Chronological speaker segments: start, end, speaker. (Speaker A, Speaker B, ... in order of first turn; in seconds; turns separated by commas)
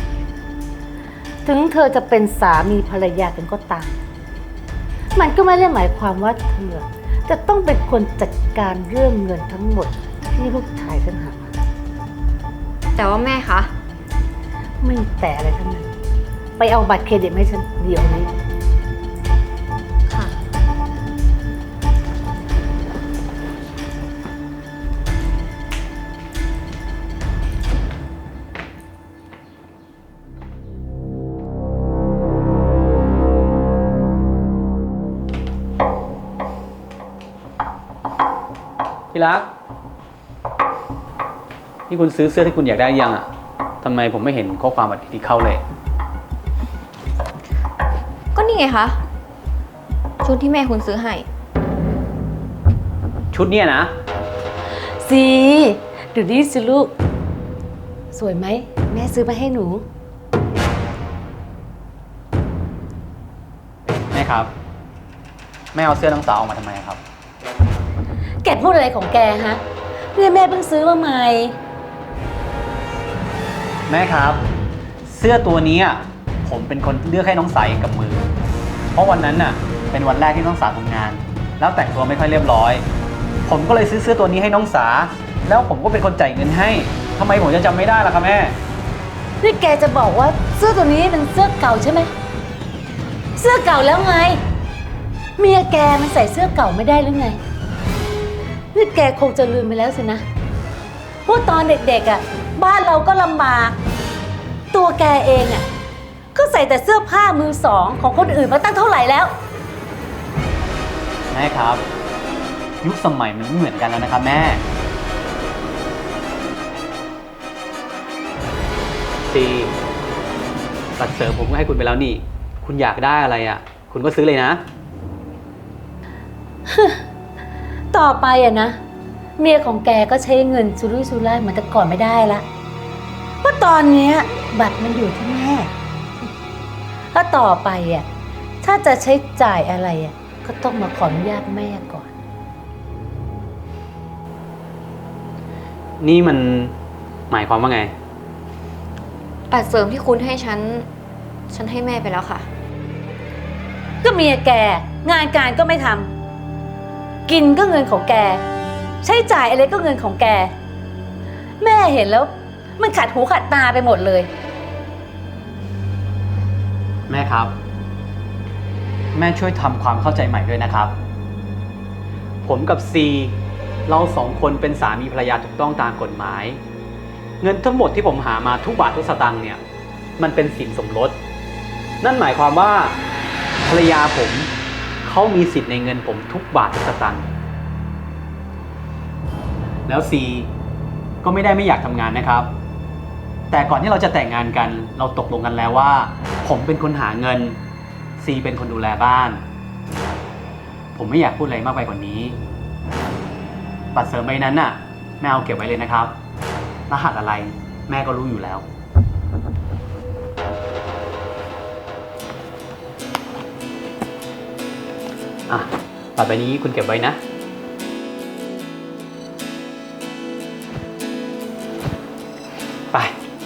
Speaker A: 1.4-4.0, Speaker A: 5.1-11.5, Speaker B: 12.9-13.7, Speaker A: 14.8-15.9, Speaker A: 16.6-18.3, Speaker B: 20.1-20.3, Speaker C: 39.1-39.5, Speaker C: 41.9-43.3, Speaker C: 43.8-45.6, Speaker B: 48.3-49.0, Speaker B: 50.2-51.2, Speaker C: 53.3-53.9, Speaker A: 55.0-56.9, Speaker A: 58.1-59.9, Speaker C: 64.1-64.5, Speaker C: 65.7-67.0, Speaker A: 68.4-69.6, Speaker A: 70.1-71.6, Speaker C: 73.9-74.5, Speaker C: 75.0-78.3, Speaker C: 78.9-82.8, Speaker C: 83.5-88.5, Speaker A: 89.4-92.1, Speaker A: 93.4-94.4, Speaker A: 95.4-97.4, Speaker A: 98.7-100.2, Speaker A: 101.2-103.8, Speaker A: 104.7-105.7, Speaker A: 106.3-109.3, Speaker C: 111.3-111.8, Speaker C: 112.8-114.6, Speaker C: 119.3-119.7, Speaker C: 121.0-124.6, Speaker A: 126.7-127.0, Speaker A: 127.9-128.8, Speaker A: 129.4-132.4, Speaker A: 133.4-135.7, Speaker A: 137.1-138.1, Speaker A: 138.6-142.1, Speaker C: 146.0-146.7, Speaker C: 147.3-147.9, Speaker B: 149.5-150.9, Speaker B: 151.5-152.5, Speaker A: 154.0-156.1, Speaker A: 157.3-158.4, Speaker A: 159.0-160.5, Speaker A: 161.6-164.3, Speaker C: 167.1-167.5, Speaker C: 169.1-170.9, Speaker C: 172.4-176.6, Speaker C: 177.4-179.6, Speaker C: 180.2-181.2, Speaker C: 182.0-183.0, Speaker C: 183.6-184.5, Speaker C: 185.0-187.3, Speaker C: 189.9-190.5, Speaker C: 191.2-192.5, Speaker C: 193.5-197.6, Speaker C: 198.2-199.4, Speaker C: 200.9-202.4, Speaker C: 203.9-206.1, Speaker C: 206.9-208.6, Speaker C: 215.5-217.2